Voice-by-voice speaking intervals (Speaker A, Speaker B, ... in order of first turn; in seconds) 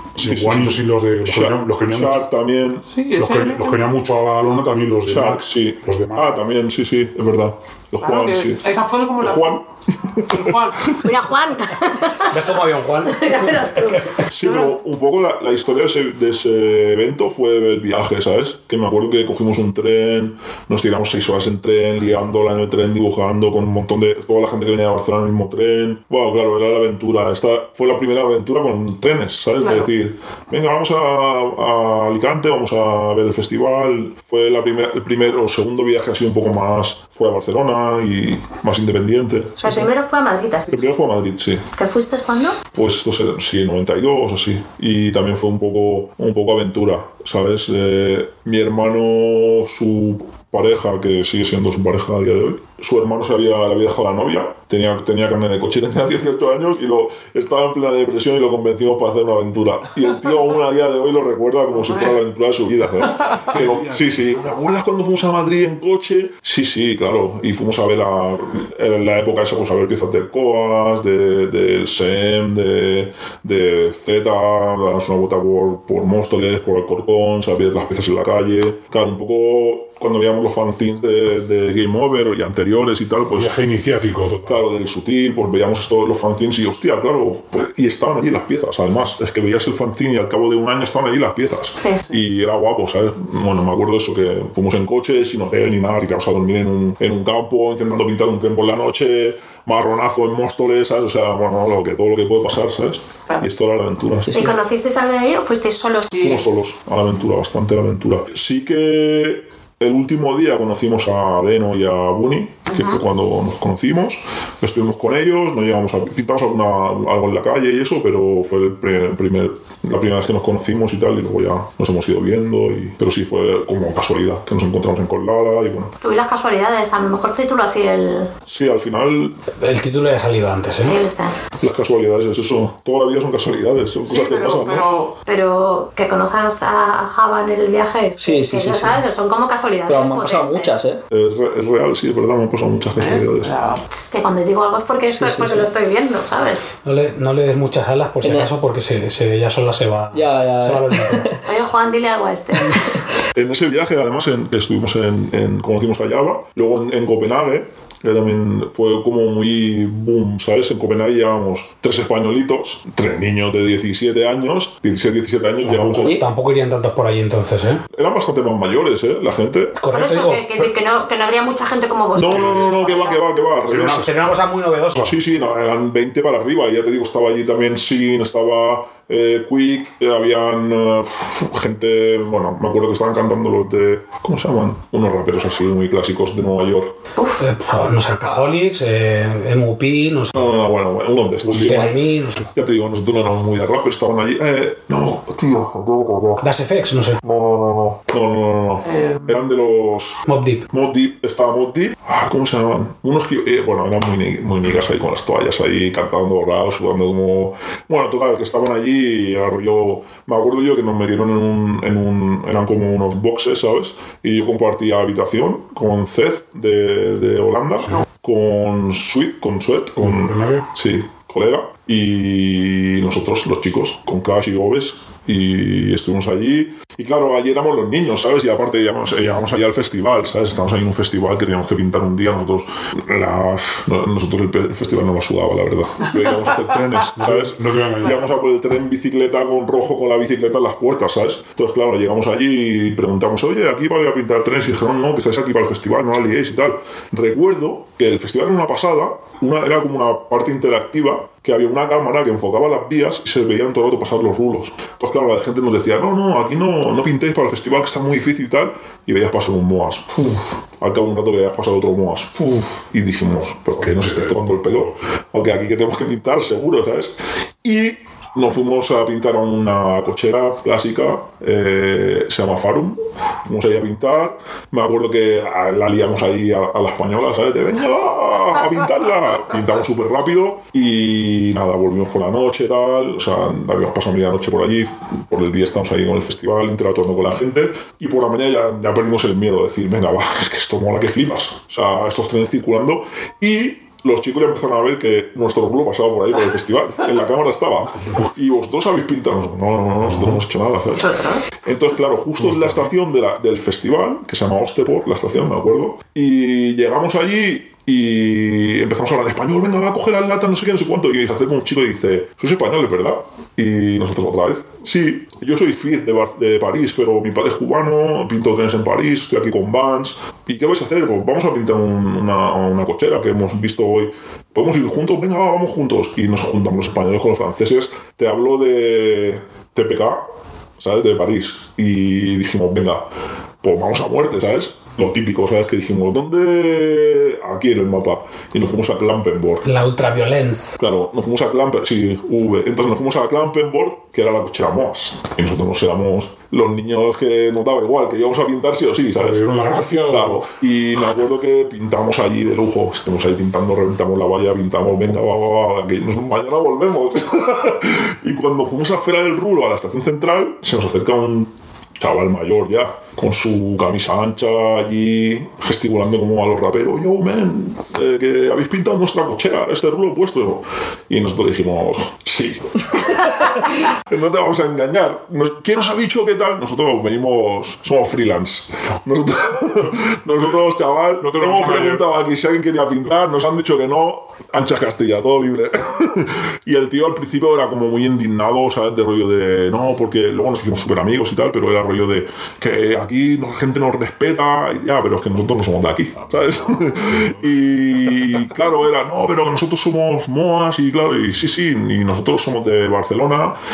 Speaker A: 0.2-2.9, 4.9-8.6, 9.2-11.0, 14.3-39.8, 40.7-41.7, 42.7-83.6, 84.4-104.5, 106.2-125.9, 128.5-129.4, 131.6-134.9, 141.1-143.5, 153.3-166.1, 167.9-169.8, 172.1-174.1, 175.0-186.9, 190.3-192.0, 192.5-196.5, 197.2-330.2, 330.8-333.0, 333.6-339.6, 340.8-403.6
Speaker B: 0.2-2.2, 3.1-6.3, 63.6-64.0, 83.3-84.6, 165.6-166.0, 173.7-174.2, 191.4-191.9, 220.0-220.6, 237.2-238.2, 263.8-264.6, 300.1-300.4, 302.4-302.8, 349.2-350.4, 381.2-382.0
Speaker C: 2.9-3.9, 8.0-9.6, 10.3-10.9, 14.4-14.8, 29.6-29.9, 61.9-62.2, 63.2-63.5, 106.1-106.4, 134.0-135.1, 142.9-143.8, 198.8-199.3
Speaker D: 10.9-14.1, 39.6-40.9, 41.8-42.6, 104.3-106.2, 126.0-128.3, 130.8-131.4, 135.2-140.7, 143.9-146.6, 151.4-153.0, 169.9-173.2, 300.9-301.4
Speaker E: 12.3-14.1, 129.6-131.0, 146.8-151.3, 166.0-167.8, 169.8-170.4, 173.9-175.1, 187.4-190.4, 191.5-192.4, 196.4-197.2, 200.2-200.7, 339.6-340.8
Speaker F: 138.2-139.0, 139.9-141.0, 145.1-145.7, 148.2-148.5, 150.1-151.4, 166.0-166.2